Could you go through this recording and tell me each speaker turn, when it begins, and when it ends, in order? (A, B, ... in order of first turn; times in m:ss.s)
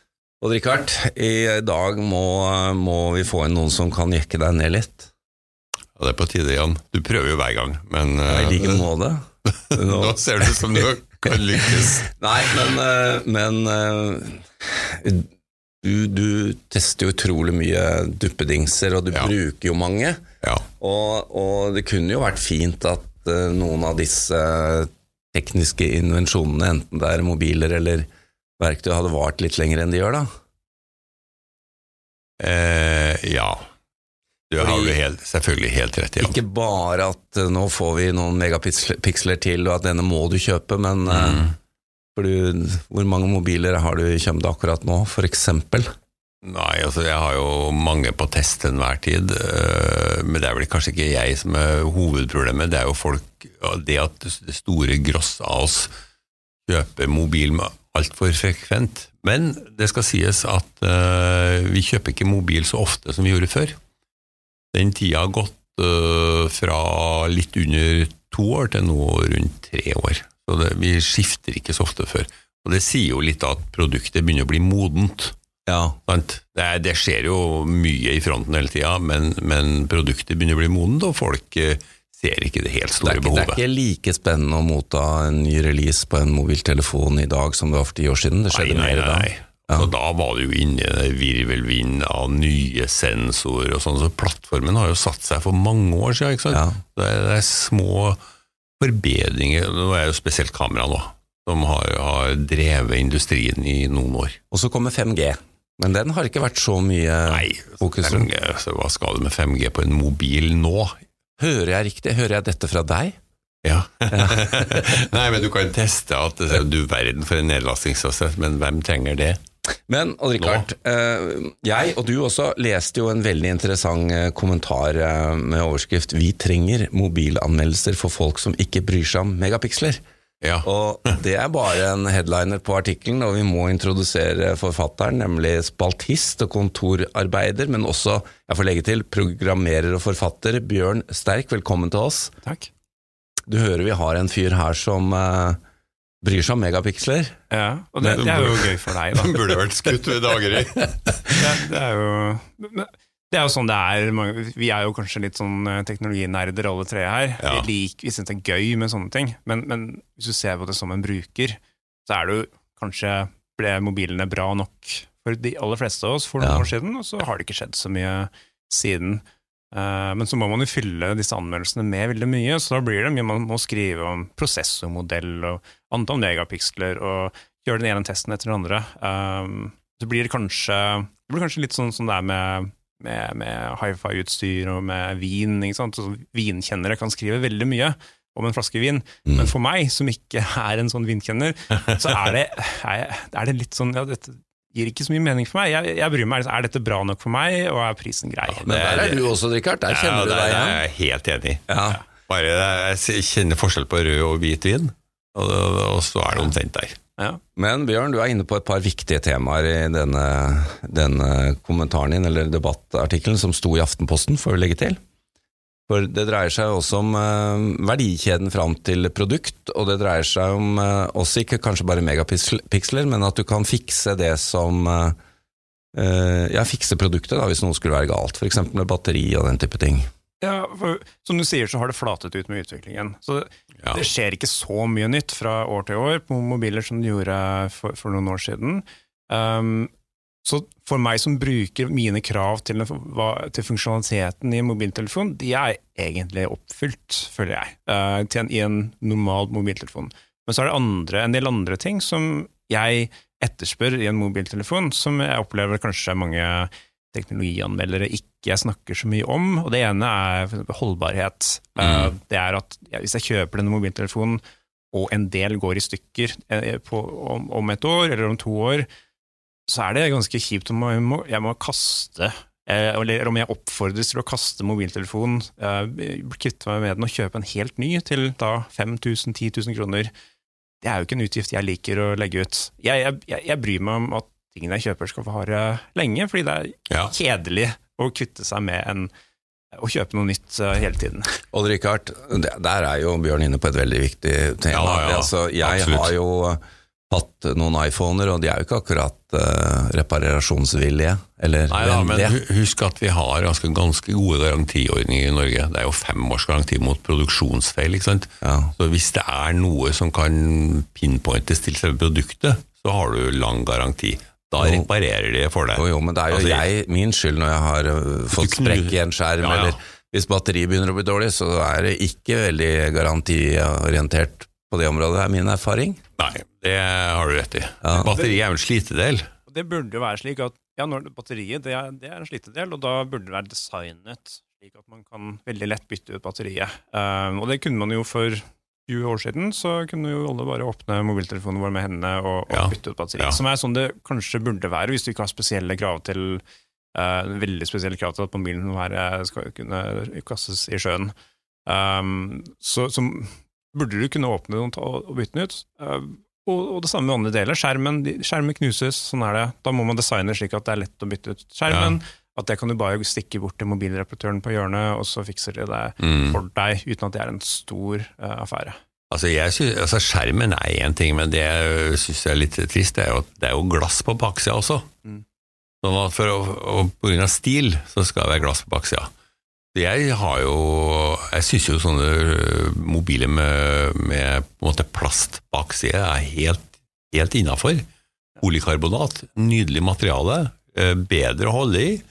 0:00.4-0:05.1 A
0:06.0-0:08.8 B
0:08.3-0:09.2 A
0:09.7-0:12.1 B
0:09.7-0:10.2 A
0:12.0-0:15.3 A
0:15.8-0:20.2 A
0:20.8-0:28.0 A
0:28.6-0:30.3 A
0:32.4-0:33.6 B
0:34.5-0:36.4 B
0:34.6-0:35.0 A
0:36.2-0:41.4 A
0:41.1-0:41.5 B
0:42.1-0:45.9 A
0:46.4-0:55.9 B
0:56.7-1:03.8 B
1:04.7-1:15.3 B
1:15.6-1:16.0 A
1:16.1-1:23.6 B
1:23.0-1:29.9 A
1:28.5-1:38.2 B
1:36.5-1:36.8 A
1:38.8-1:44.4 B
1:44.5-1:48.3 A
1:47.3-1:51.0 B
1:51.4-1:53.2 A
1:53.6-1:59.4 B
1:54.1-1:54.4 A
1:59.9-2:10.0 A
2:10.4-2:11.2 B
2:10.6-2:22.3 A
2:22.4-2:22.7 C
2:23.5-2:25.6 A
2:26.2-2:27.4 A
2:27.5-2:29.4 C
2:28.0-2:28.4 A
2:28.1-2:31.3 B
2:31.4-3:18.6 C
2:37.4-2:37.7 B
2:46.4-2:46.7 A
3:18.5-3:19.2 B
3:18.6-3:20.8 A
3:19.9-3:27.0 B
3:21.7-3:22.0 A
3:27.6-3:35.0 A
3:35.9-3:45.2 A
3:45.9-3:50.0 A
3:50.4-3:59.9 C
4:00.4-4:24.4 C
4:21.8-4:22.1 B
4:24.9-4:28.9 C
4:29.7-4:40.1 C
4:40.8-4:49.1 C
4:49.7-4:51.4 C
4:51.5-5:02.4 A
4:54.7-4:56.1 B
5:01.7-5:16.6 B
5:08.4-5:08.7 A
5:14.6-5:14.9 A
5:15.7-5:26.0 A
5:18.3-5:19.8 B
5:26.2-5:29.3 B
5:27.8-5:28.1 A
5:28.1-5:28.3 C
5:29.5-5:46.4 C
5:42.5-5:43.4 B
5:46.9-5:51.1 C
5:51.6-6:08.8 C
6:01.7-6:02.0 B
6:06.0-6:06.4 B
6:09.1-6:14.8 B
6:15.8-6:19.1 B
6:19.7-6:27.8 B
6:28.4-6:32.0 B